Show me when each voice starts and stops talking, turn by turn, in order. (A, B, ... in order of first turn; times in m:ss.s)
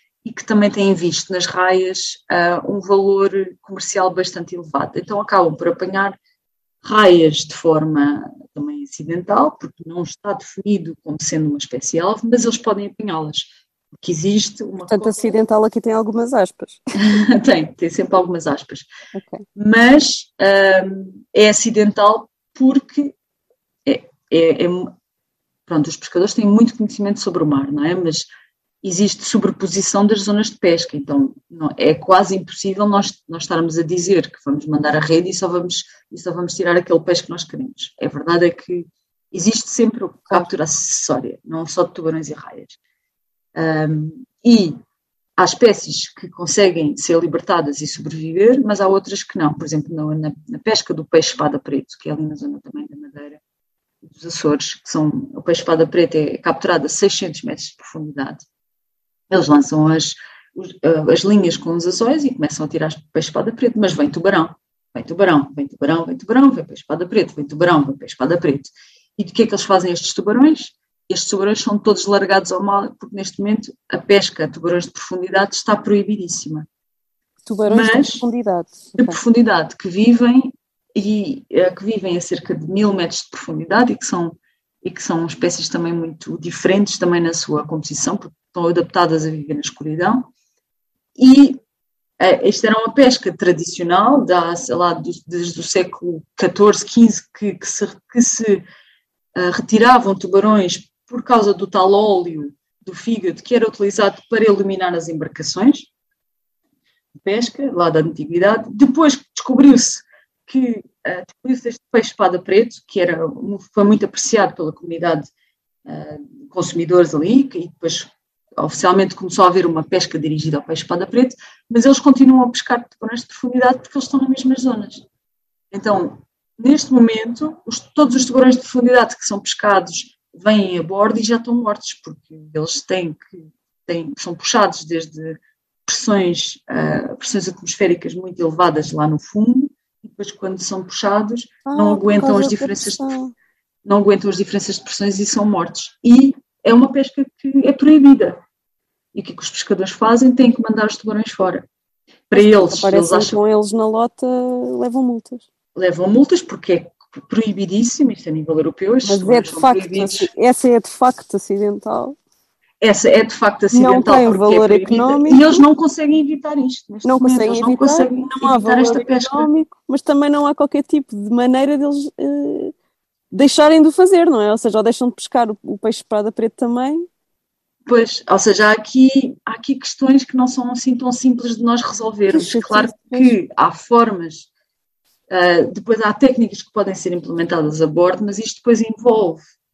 0:00.2-0:06.2 A
0:06.8-0:15.2 A
0:14.9-0:16.8 B
0:17.0-0:18.9 A
0:19.1-0:19.4 B
0:19.5-0:23.1 A
0:23.8-0:24.9 A
0:25.7-0:28.3 A
0:28.8-0:42.8 A
0:43.5-0:44.8 A
0:45.4-0:53.4 A
0:54.0-0:58.4 A
0:59.3-1:16.7 A
1:17.4-1:19.2 B
1:17.7-1:18.2 A
1:19.0-1:30.2 A
1:31.2-1:31.6 A
1:32.2-1:38.6 A
1:39.3-1:45.9 A
1:47.2-1:55.3 A
1:55.8-2:05.0 A
2:05.7-2:23.2 A
2:21.6-2:23.3 B
2:23.8-2:28.4 A
2:29.1-2:31.7 A
2:32.3-2:33.4 A
2:32.3-2:35.4 B
2:35.8-2:40.3 A
2:39.0-2:42.2 B
2:42.8-2:49.5 A
2:43.7-2:45.6 B
2:47.0-2:52.7 B
2:53.3-2:57.0 B
2:57.8-3:04.5 A
3:02.3-3:03.4 B
3:05.3-3:09.4 A